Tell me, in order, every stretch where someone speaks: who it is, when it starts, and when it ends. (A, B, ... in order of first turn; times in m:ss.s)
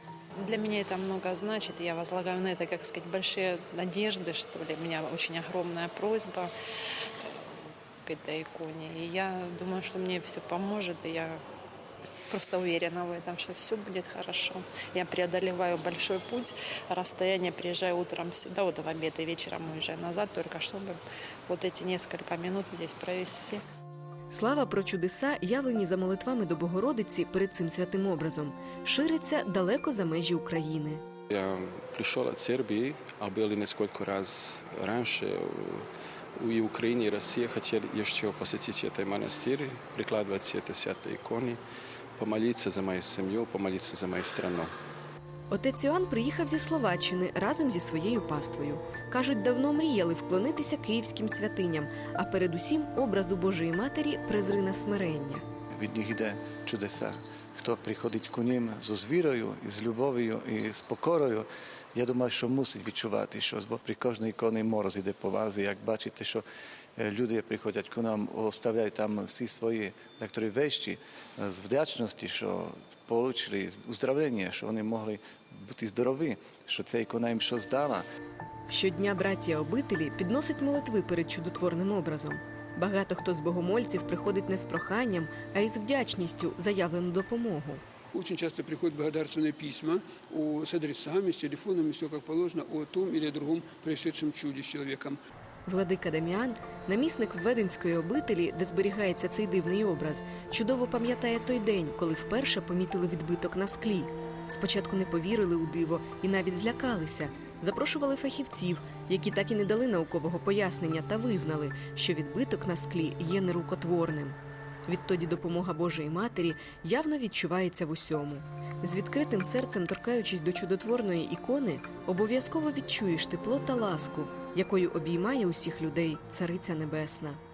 0:00.4-0:06.5 A
0:08.0-0:11.4 A
0:12.3-0:23.6 A
0:24.3-0:31.0 B
0:31.3-0:41.6 C
0:42.1-0:44.7 C
0:45.5-0:55.4 B
0:55.8-1:06.4 D
1:07.0-1:18.0 D
1:18.7-1:27.8 B
1:28.1-1:35.2 E
1:35.6-2:07.4 B